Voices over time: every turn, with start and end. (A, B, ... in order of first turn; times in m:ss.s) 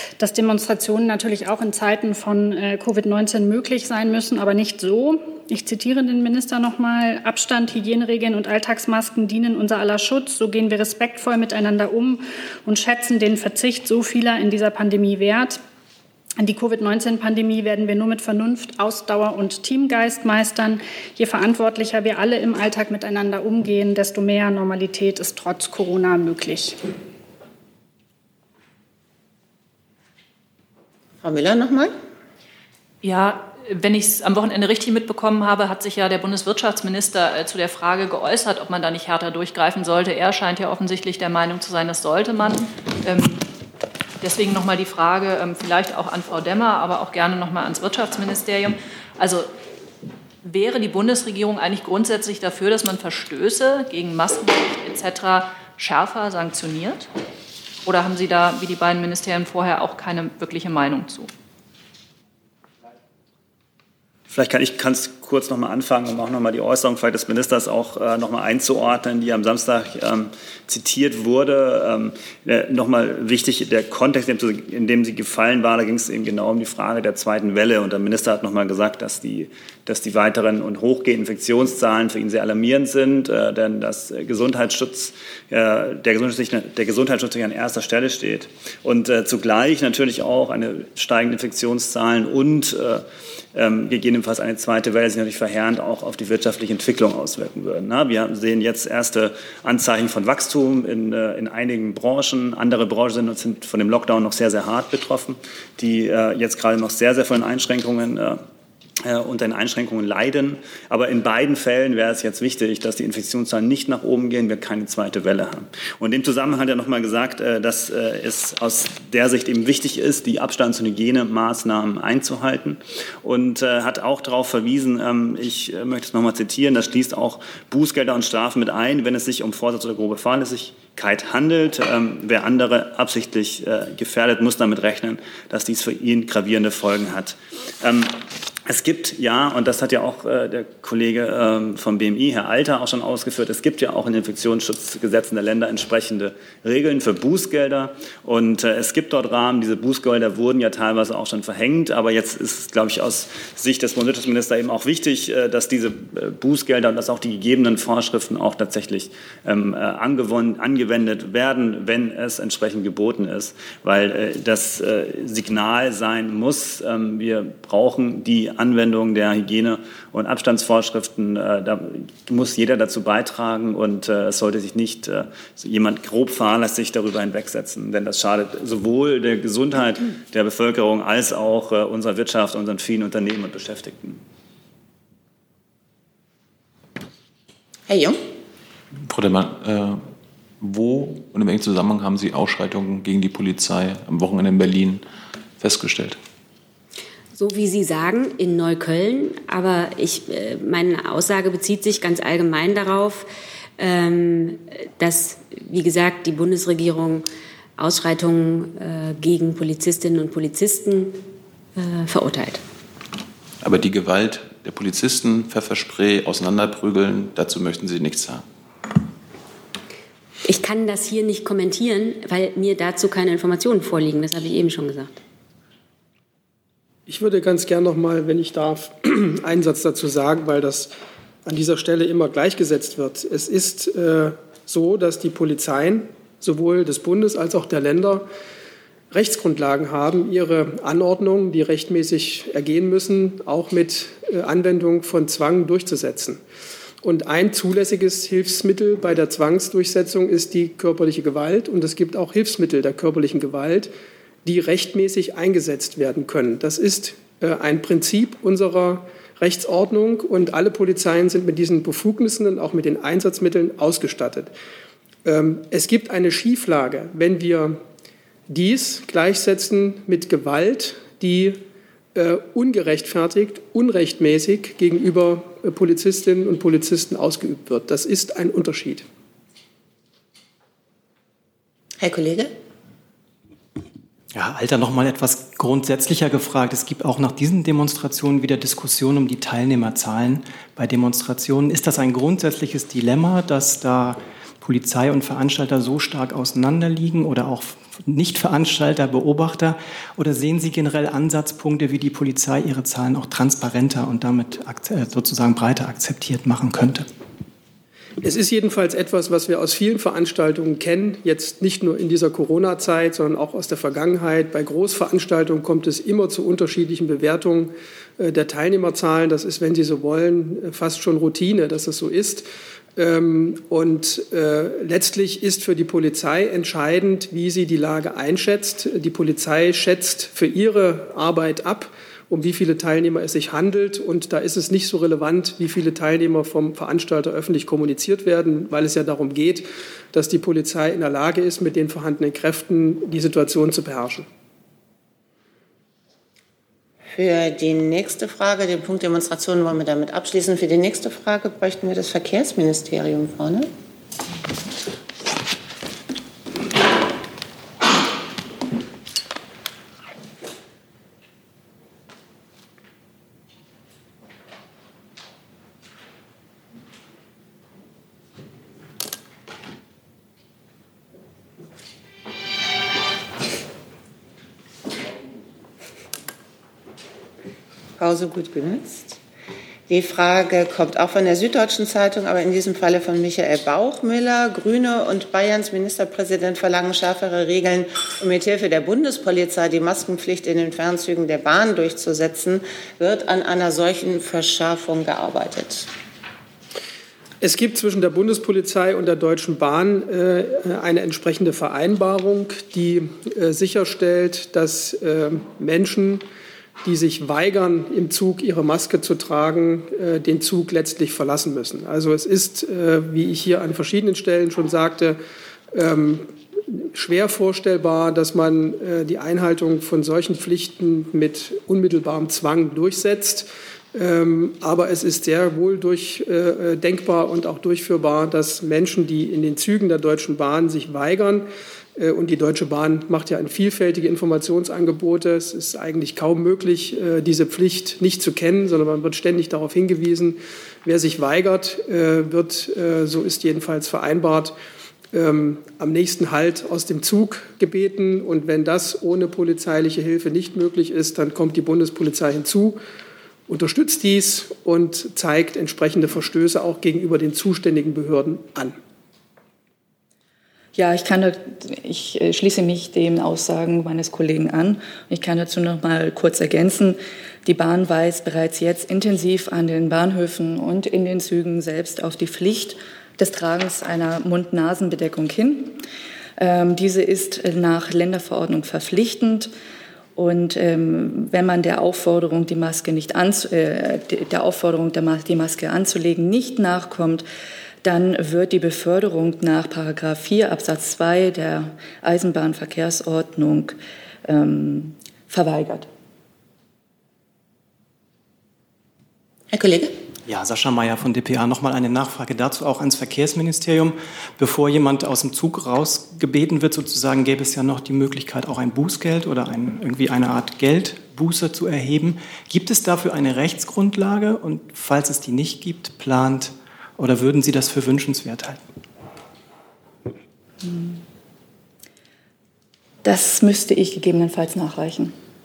0:00.2-0:15.6 A
0:16.4-0:26.8 A
0:31.2-0:31.9 B
0:33.0-0:43.4 C
0:44.2-0:49.5 C
0:50.4-0:57.1 C
0:57.8-1:01.3 C
1:04.3-1:48.4 D
1:49.0-3:04.2 D
3:07.9-3:08.2 B
3:09.0-3:10.0 E
3:10.6-3:15.0 E
3:15.6-3:16.2 E
3:17.3-3:27.2 F
3:27.8-3:31.2 F
3:31.8-3:32.6 F
3:33.6-3:38.4 E
3:40.4-3:45.2 F
3:47.1-3:50.9 G
3:51.4-3:58.3 G
3:59.1-4:06.4 G
4:07.0-4:13.9 G
4:14.4-4:24.5 G
4:25.2-4:27.8 G
4:28.5-4:31.6 G
4:32.1-4:39.0 G
4:42.0-4:42.5 B
4:44.3-5:07.1 H
5:08.2-5:44.2 G
5:47.1-5:53.7 B
6:18.0-6:19.2 B
6:19.9-6:35.9 B
6:37.4-6:46.2 G
6:46.8-6:55.2 G
6:55.7-7:24.5 G
7:25.1-7:32.8 G
7:33.5-7:38.8 G
7:40.7-7:55.8 I
7:56.4-7:59.5 I
8:00.2-8:07.2 I
8:07.8-8:15.9 I
8:19.5-8:19.9 B
8:20.3-8:38.6 H
8:40.6-8:41.0 I
8:43.0-8:45.1 I